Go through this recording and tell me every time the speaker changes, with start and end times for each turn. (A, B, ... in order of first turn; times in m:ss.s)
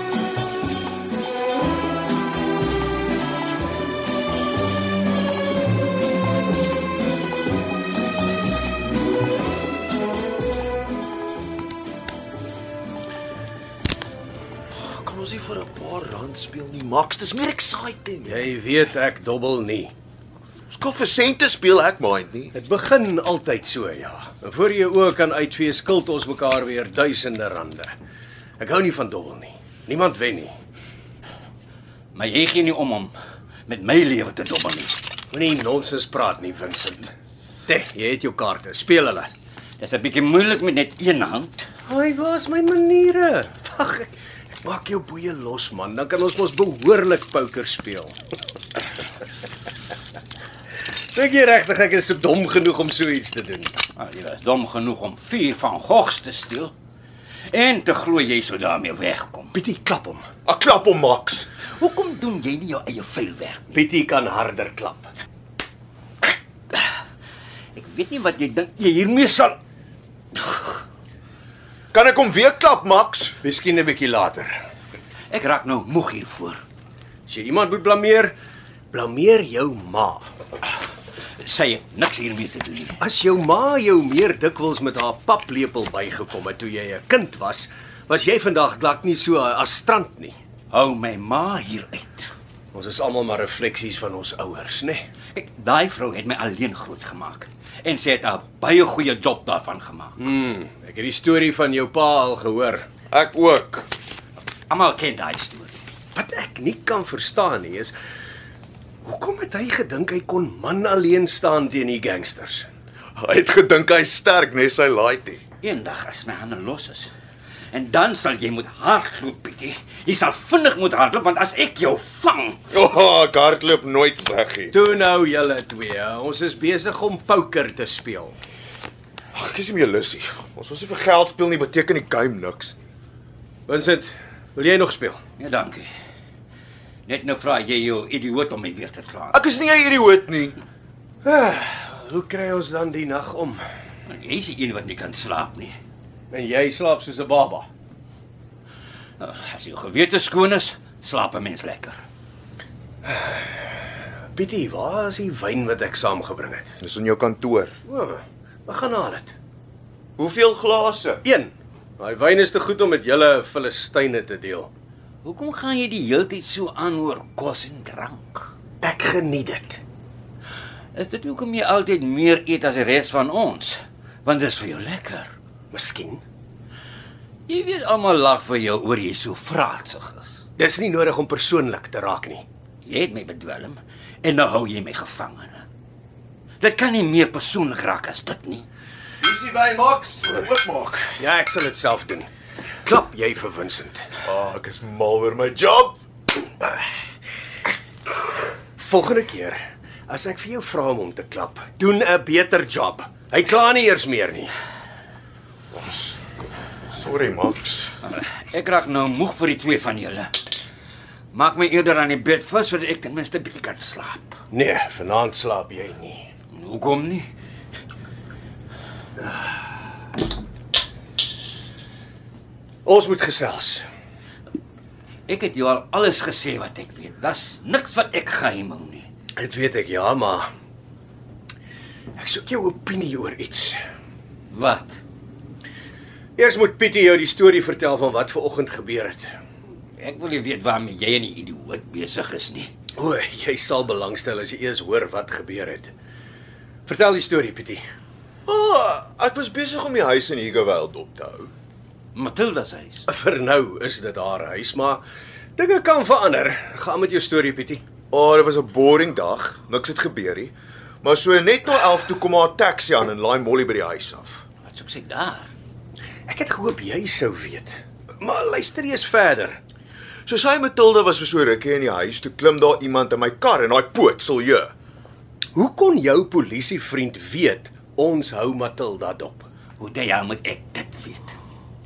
0:14.8-0:18.4 A
0:18.2-0:19.9 B
0:20.7-0:22.5 A
0:22.5-0:27.9 B
0:28.6-0:30.5 B
0:32.1-0:33.2 C
0:33.7-0:35.0 C
0:35.3-0:37.1 B
0:37.7-0:39.3 B
0:39.8-0:41.7 C
0:41.9-0:44.1 B
0:44.6-0:48.2 B
0:51.1-0:53.7 B
0:54.0-0:56.7 C
0:57.5-0:59.6 C
0:59.5-1:00.2 B
1:00.4-1:01.5 A
1:01.7-1:03.8 C
1:03.7-1:05.1 B
1:07.8-1:09.6 C
1:11.9-1:13.4 A
1:13.4-1:14.6 B
1:15.3-1:16.6 C
1:17.3-1:18.3 B
1:18.9-1:20.3 B
1:21.4-1:23.0 C
1:23.0-1:30.4 B
1:30.7-1:32.3 C
1:32.7-1:35.0 B
1:35.3-1:40.2 C
1:40.2-1:42.9 B
1:43.1-1:43.9 A
1:44.7-1:45.8 C
1:46.2-1:47.9 B
1:49.0-1:52.7 B
1:53.2-1:55.4 A
1:55.6-1:57.1 C
1:57.7-2:02.6 C
2:02.7-2:04.8 A
2:04.7-2:08.4 B
2:09.3-2:12.8 A
2:13.7-2:15.2 B
2:15.4-2:15.9 C
2:17.1-2:19.4 C
2:19.3-2:20.6 A
2:21.2-2:23.6 B
2:24.1-2:25.8 C
2:26.3-2:27.7 B
2:29.2-2:32.0 C
2:33.1-2:33.4 B
2:34.4-2:36.8 B
2:36.8-2:37.8 A
2:37.9-2:39.4 B
2:40.2-2:41.2 A
2:41.2-2:44.7 B
2:45.2-2:48.5 C
2:48.8-2:49.8 B
2:50.9-2:55.3 C
2:55.7-2:56.2 B
2:57.5-3:00.4 C
3:00.6-3:02.4 B
3:02.8-3:05.7 C
3:06.6-3:08.7 C
3:09.2-3:11.2 A
3:11.2-3:12.3 B
3:12.9-3:14.1 B
3:14.2-3:16.0 A
3:18.8-3:19.6 B
3:20.1-3:24.5 B
3:25.7-3:26.2 A
3:26.9-3:28.0 A
3:28.0-3:30.3 C
3:31.3-3:34.4 C
3:34.5-3:36.3 B
3:36.5-3:37.3 C
3:42.8-3:43.8 B
3:45.3-3:49.1 C
3:49.4-3:50.5 B
3:52.2-3:53.8 B
3:54.5-3:55.0 C
3:56.4-3:59.3 B
4:00.0-4:02.7 C
4:03.0-4:05.9 B
4:06.9-4:07.8 B
4:08.5-4:11.5 A
4:12.2-4:13.1 C
4:13.1-4:15.0 B
4:15.6-4:17.8 B
4:18.1-4:24.4 A
4:24.6-4:25.5 C
4:26.3-4:29.6 B
4:30.3-4:34.7 A
4:35.6-4:39.5 B
4:39.8-4:41.4 C